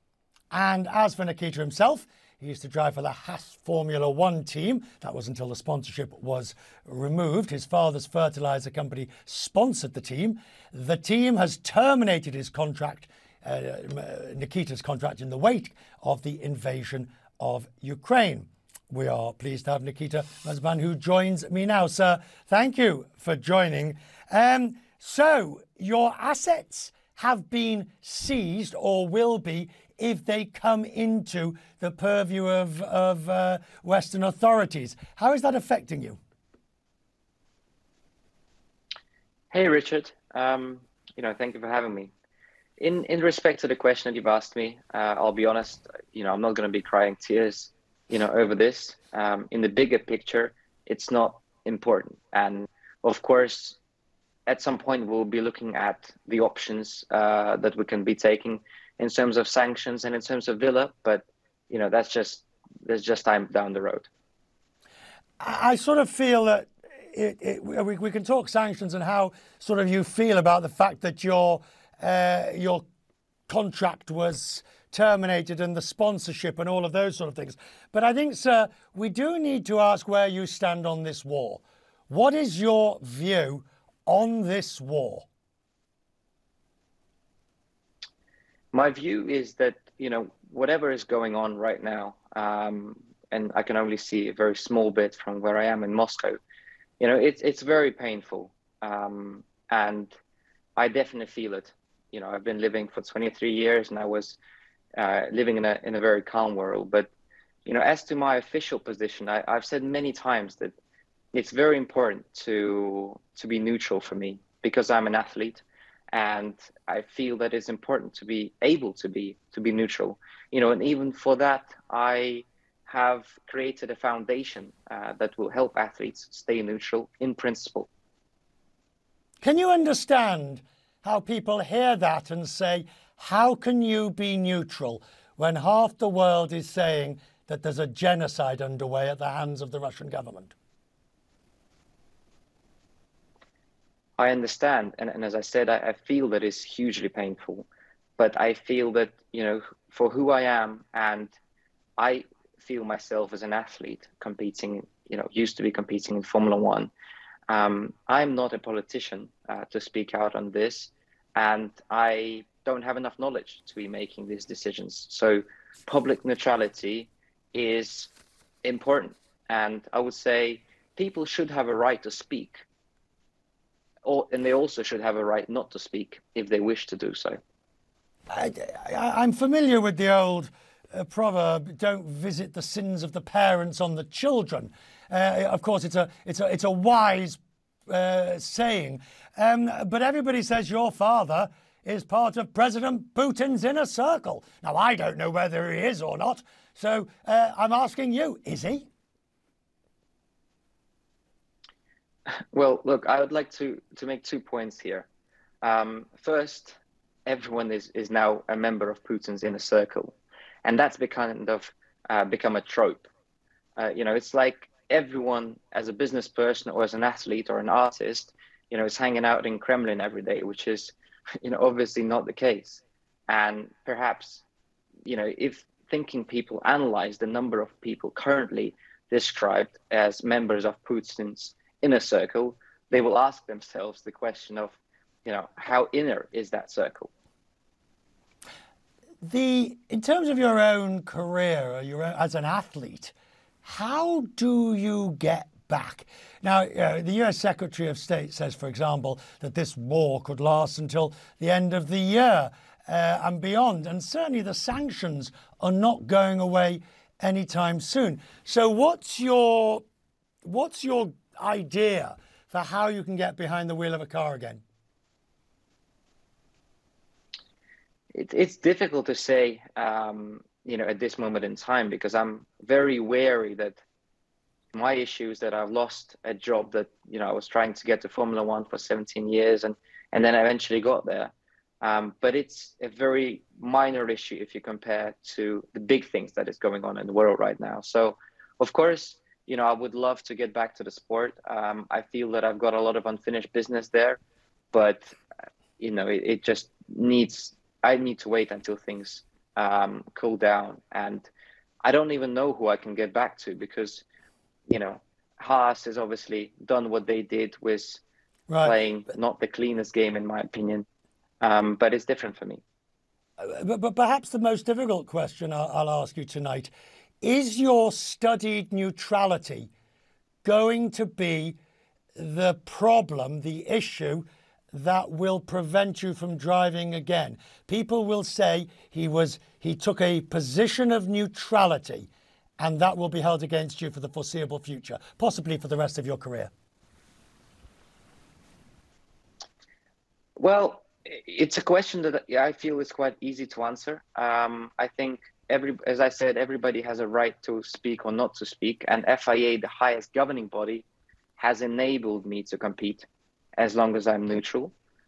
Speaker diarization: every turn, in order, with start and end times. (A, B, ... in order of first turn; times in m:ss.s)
0:00.5-0:36.2 A
0:39.5-0:42.1 B
0:42.8-0:53.8 B
0:54.5-1:04.1 B
1:05.4-1:12.8 A
1:13.5-1:25.3 A
1:28.7-1:36.4 B
1:37.0-1:40.2 B
1:40.8-1:44.4 B
1:45.0-1:47.1 B
1:47.7-1:50.8 B
1:51.3-2:07.9 B
2:09.4-2:20.6 A
2:24.2-2:27.7 B
2:28.2-2:31.3 B
2:32.0-2:36.9 B
2:37.5-2:48.1 B
2:48.6-2:52.6 B
2:54.0-2:57.4 B
2:58.3-3:18.9 A
3:22.5-3:25.1 B
3:25.6-3:33.1 B
3:33.8-3:44.4 B
3:45.0-3:57.1 B
3:59.2-4:19.8 A
4:20.4-4:24.6 A
4:28.1-4:33.8 B
4:34.7-4:54.2 B
4:54.7-4:55.2 B
4:55.8-5:01.3 B
5:01.8-5:04.0 B
5:04.7-5:08.0 B
5:08.5-5:08.8 A
5:08.6-5:10.8 B
5:11.4-5:12.6 B
5:13.4-5:19.7 A
5:20.4-5:21.6 A
5:22.2-5:32.1 A
5:32.6-5:36.5 A
5:40.4-5:50.9 B
5:51.4-5:54.7 B